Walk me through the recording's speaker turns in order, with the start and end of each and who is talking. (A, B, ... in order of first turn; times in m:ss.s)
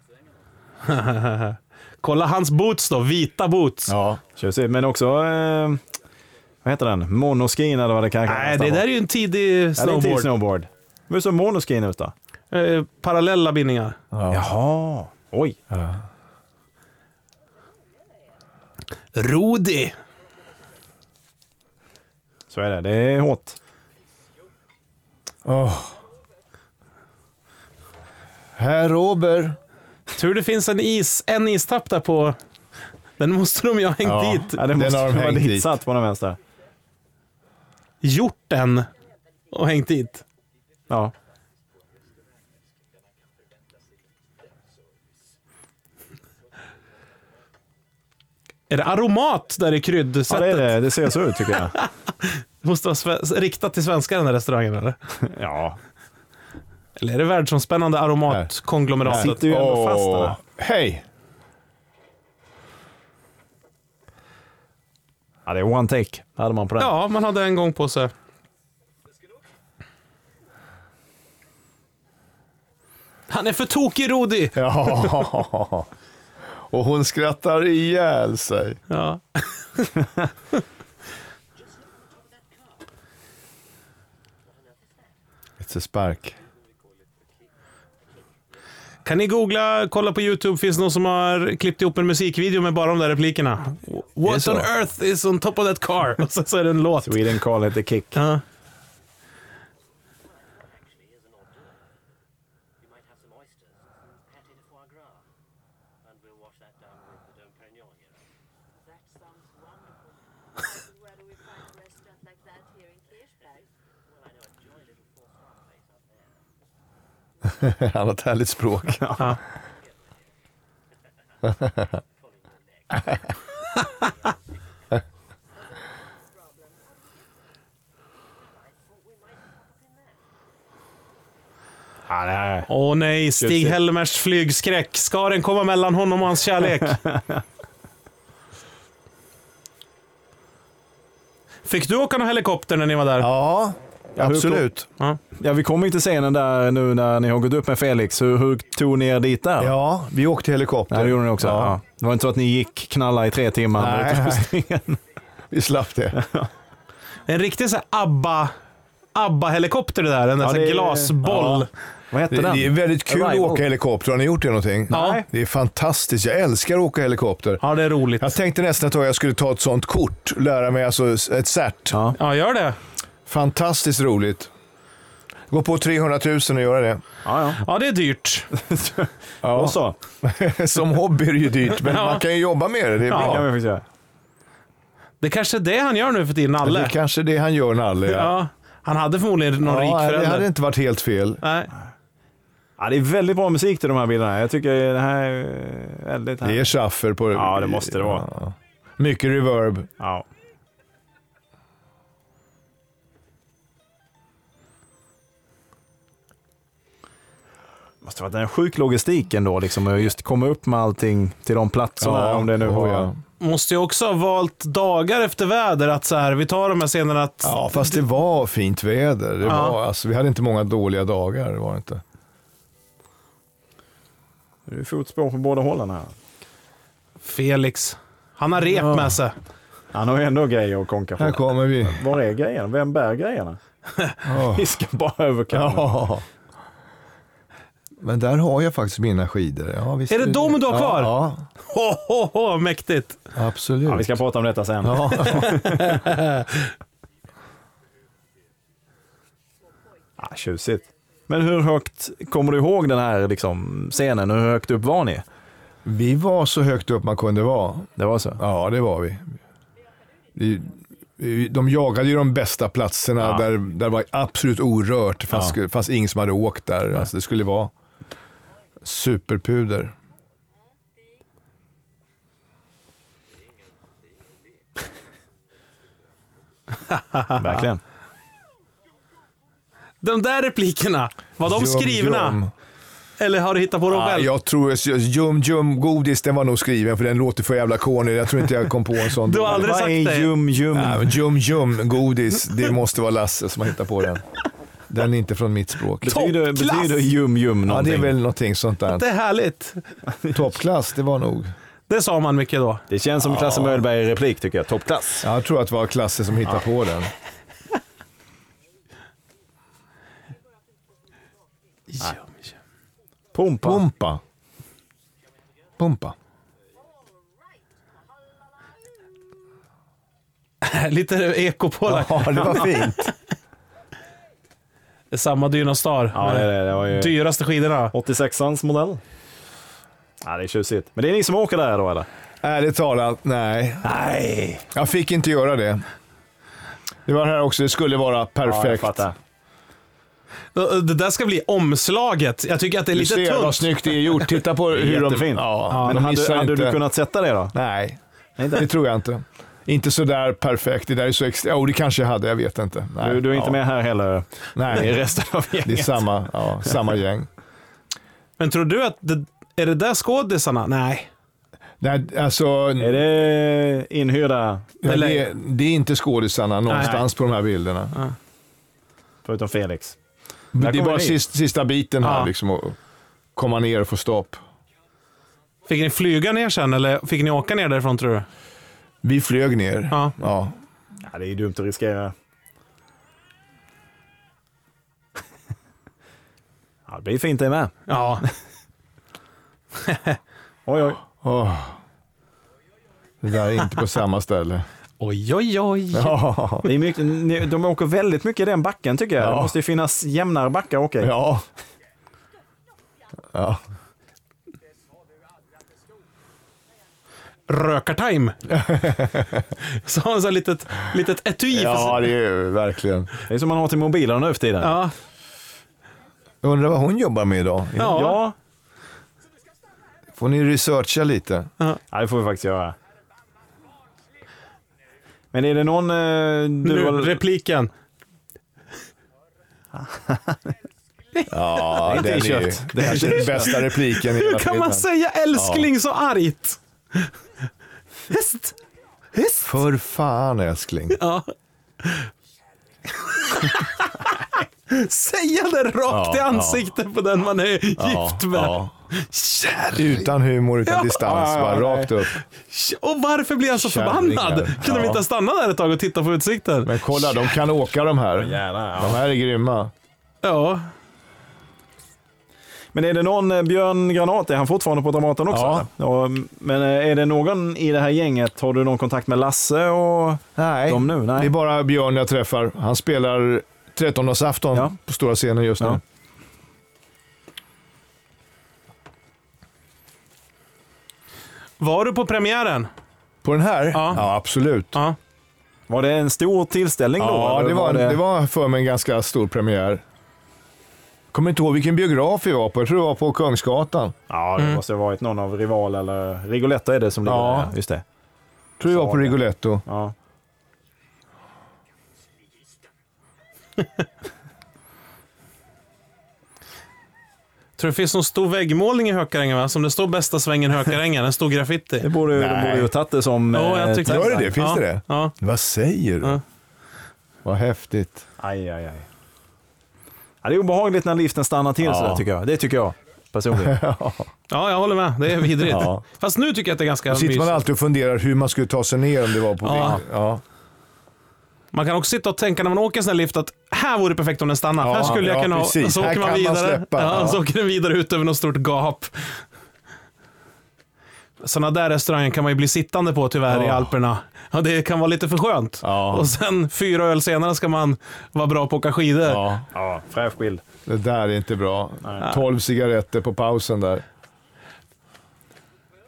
0:00.8-0:03.9 A
0:03.9-0:04.2 B
0:04.2-0:05.8 C
0:06.6-0:08.9 C
0:08.2-0:10.3 A
0:09.8-0:12.1 C
0:12.5-0:14.0 A
0:14.1-0:14.5 B
0:14.3-0:15.6 C
0:15.7-0:16.0 B
0:19.1-0:20.0 A
0:22.5-0:23.6 C
0:25.4-0:26.0 B
0:28.6-0:29.6 B
0:30.1-0:32.4 A
0:33.2-0:34.6 A
0:34.0-0:35.7 B
0:34.6-0:36.4 C
0:38.0-0:38.9 A
0:39.5-0:40.2 A
0:48.7-0:50.8 A
0:50.3-0:51.8 C
0:51.5-0:55.0 A
0:55.2-0:55.8 C
0:57.0-0:59.4 A
0:59.0-1:01.0 B
0:59.0-1:00.4 C
1:05.4-1:06.9 C
1:06.8-1:08.1 A
1:13.3-1:14.6 A
1:14.5-1:15.9 B
1:16.7-1:18.8 B
1:18.9-1:19.9 A
1:22.2-1:22.5 D
1:24.4-1:25.1 D
1:25.6-1:26.4 B
1:26.8-1:27.5 D
1:29.0-1:37.2 A
1:34.2-1:34.7 B
1:37.0-1:38.2 C
1:38.1-1:38.4 A
1:40.2-1:41.9 D
1:42.8-1:45.2 D
1:46.0-1:48.3 D
1:48.7-1:49.8 E
1:50.5-1:53.7 E
1:53.4-1:56.4 D
1:57.5-1:59.2 B
1:59.8-2:00.1 D
2:01.4-2:03.6 D
2:06.3-2:07.2 E
2:09.3-2:09.6 E
2:12.1-2:12.7 C
2:12.7-2:17.0 A
2:13.4-2:13.8 C
2:16.9-2:17.2 C
2:21.6-2:23.3 A
2:23.2-2:24.9 B
2:24.2-2:24.7 C
2:25.4-2:29.7 C
2:29.6-2:31.8 B
2:30.9-2:35.0 C
2:33.8-2:34.6 B
2:35.5-2:36.2 B
2:36.2-2:36.5 C
2:37.3-2:38.5 A
2:39.1-2:41.7 A
2:40.4-2:43.6 C
2:42.3-2:47.6 B
2:44.9-2:45.2 C
2:44.9-2:45.2 A
2:47.6-2:48.4 A
2:48.2-2:52.0 B
2:51.9-2:52.2 C
2:52.2-2:52.8 A
2:53.2-2:54.5 B
2:55.5-2:57.0 B
2:57.2-2:57.6 C
2:57.6-2:58.5 A
2:58.5-3:00.0 C
2:59.4-3:03.5 B
3:01.8-3:02.2 A
3:03.1-3:03.8 C
3:03.1-3:03.4 A
3:05.2-3:06.9 A
3:06.6-3:08.4 B
3:08.1-3:10.5 A
3:09.6-3:11.4 B
3:11.4-3:11.7 A
3:12.8-3:16.7 C
3:16.4-3:19.9 B
3:17.3-3:18.3 C
3:20.0-3:20.2 C
3:28.0-3:33.1 C
3:32.0-3:33.2 B
3:33.4-3:37.9 A
3:37.4-3:42.0 B
3:39.5-3:39.8 A
3:44.7-3:46.1 C
3:47.2-3:49.3 A
3:49.9-3:53.6 C
3:51.2-3:52.0 B
3:54.2-3:54.7 B
3:54.4-3:55.9 C
3:55.5-3:56.2 B
3:58.0-4:01.4 B
4:00.1-4:03.2 A
4:03.3-4:04.1 B
4:03.9-4:06.0 C
4:04.8-4:05.6 B
4:05.3-4:06.7 A
4:10.1-4:10.9 E
4:10.2-4:15.2 C
4:15.8-4:19.3 B
4:18.0-4:18.4 C
4:20.4-4:27.7 B
4:28.8-4:29.9 B
4:33.4-4:34.4 D
4:37.1-4:37.5 A
4:37.4-4:37.8 C
4:40.0-4:42.4 A
4:41.4-4:42.5 B
4:43.2-4:44.3 A
4:43.9-4:49.7 B
4:49.2-4:50.3 A
4:49.5-4:51.2 C
4:50.7-4:54.2 B
4:54.9-4:56.2 B
4:56.0-4:58.1 C
4:56.1-4:57.0 A
4:57.7-4:59.0 B
4:58.9-4:59.9 A
5:00.3-5:01.5 B
5:01.9-5:02.8 A
5:02.9-5:05.3 C
5:03.2-5:03.7 B
5:05.2-5:07.1 B
5:10.9-5:11.3 E
5:11.9-5:12.5 A
5:13.3-5:13.8 C
5:13.6-5:14.2 B
5:15.8-5:16.1 B
5:16.9-5:17.6 E
5:18.3-5:18.7 E
5:20.6-5:23.1 A
5:21.8-5:23.1 B
5:25.1-5:27.9 A
5:26.1-5:27.1 C
5:27.9-5:29.0 C
5:30.2-5:32.1 C
5:32.4-5:33.9 B
5:33.8-5:34.6 C
5:34.7-5:35.8 B
5:37.0-5:39.0 B
5:38.4-5:39.2 C
5:40.5-5:44.0 A
5:42.9-5:46.8 B
5:44.7-5:47.5 C
5:45.7-5:46.0 A
5:47.5-5:48.0 B
5:48.4-5:48.7 C
5:48.5-5:53.6 B
5:53.0-5:56.1 C
5:54.5-5:55.0 B
5:55.6-5:57.3 B
5:58.4-6:01.1 A
6:01.8-6:03.0 B
6:02.8-6:04.8 C
6:04.8-6:08.0 B
6:04.8-6:05.2 A
6:06.7-6:07.0 A
6:09.2-6:10.0 C
6:10.5-6:12.8 B
6:10.6-6:11.2 C
6:12.0-6:12.3 A
6:13.4-6:14.4 B
6:15.7-6:18.3 A
6:19.0-6:20.6 B
6:21.0-6:22.1 C
6:26.9-6:28.3 C
6:27.9-6:28.2 A
6:29.8-6:30.2 A
6:30.6-6:31.0 C
6:31.2-6:31.8 B
6:33.2-6:34.6 B
6:35.0-6:36.2 A
6:35.9-6:36.7 B
6:36.6-6:41.1 C
6:39.2-6:39.5 B
6:41.0-6:41.4 B
6:43.3-6:43.6 B
6:47.5-6:48.4 A
6:48.5-6:49.5 B
6:49.6-6:52.1 A
6:51.5-6:53.1 B
6:53.3-6:54.8 C
6:54.6-6:54.9 A
6:56.4-6:58.0 B
6:57.8-6:58.2 A
6:57.8-6:58.3 C
7:00.2-7:01.5 B
7:01.9-7:02.8 C
7:05.3-7:07.2 C
7:06.6-7:07.7 A
7:09.8-7:10.4 C
7:11.2-7:11.6 A
7:11.3-7:15.7 B
7:11.8-7:13.6 C
7:12.8-7:17.1 A
7:18.1-7:18.6 A
7:19.1-7:19.5 A
7:19.4-7:21.0 B
7:20.9-7:22.1 A
7:23.0-7:30.0 A
7:25.9-7:26.6 B
7:27.8-7:28.7 B
7:29.7-7:32.2 B
7:30.6-7:31.0 A
7:31.0-7:32.0 C
7:32.4-7:37.2 A
7:33.5-7:35.0 B
7:36.6-7:39.7 B
7:38.2-7:39.0 C
7:40.2-7:40.6 A
7:42.7-7:51.3 C
7:45.3-7:45.7 B
7:50.4-7:55.8 B
8:01.6-8:02.7 A
8:03.2-8:04.8 B
8:03.7-8:04.0 A
8:05.7-8:08.0 C
8:07.0-8:09.8 B
8:11.1-8:14.0 B
8:14.1-8:17.8 C
8:17.0-8:17.5 B
8:18.6-8:19.6 B
8:18.7-8:19.9 C
8:27.6-8:31.9 A
8:31.8-8:34.3 C
8:32.1-8:32.7 B
8:33.3-8:35.1 A
8:33.8-8:36.2 B
8:37.2-8:38.0 B
8:38.2-8:38.9 C
8:40.2-8:43.6 C
8:41.6-8:42.0 B
8:43.4-8:44.1 B
8:44.3-8:47.4 A
8:45.4-8:45.8 B
8:46.9-8:50.2 B
8:49.4-8:49.8 A
8:51.5-8:59.2 A
8:54.6-8:57.2 B
9:01.2-9:09.2 A
9:03.3-9:03.7 B
9:05.6-9:06.1 B
9:09.0-9:09.5 B
9:09.5-9:10.4 C
9:10.6-9:13.8 B
9:11.8-9:12.1 C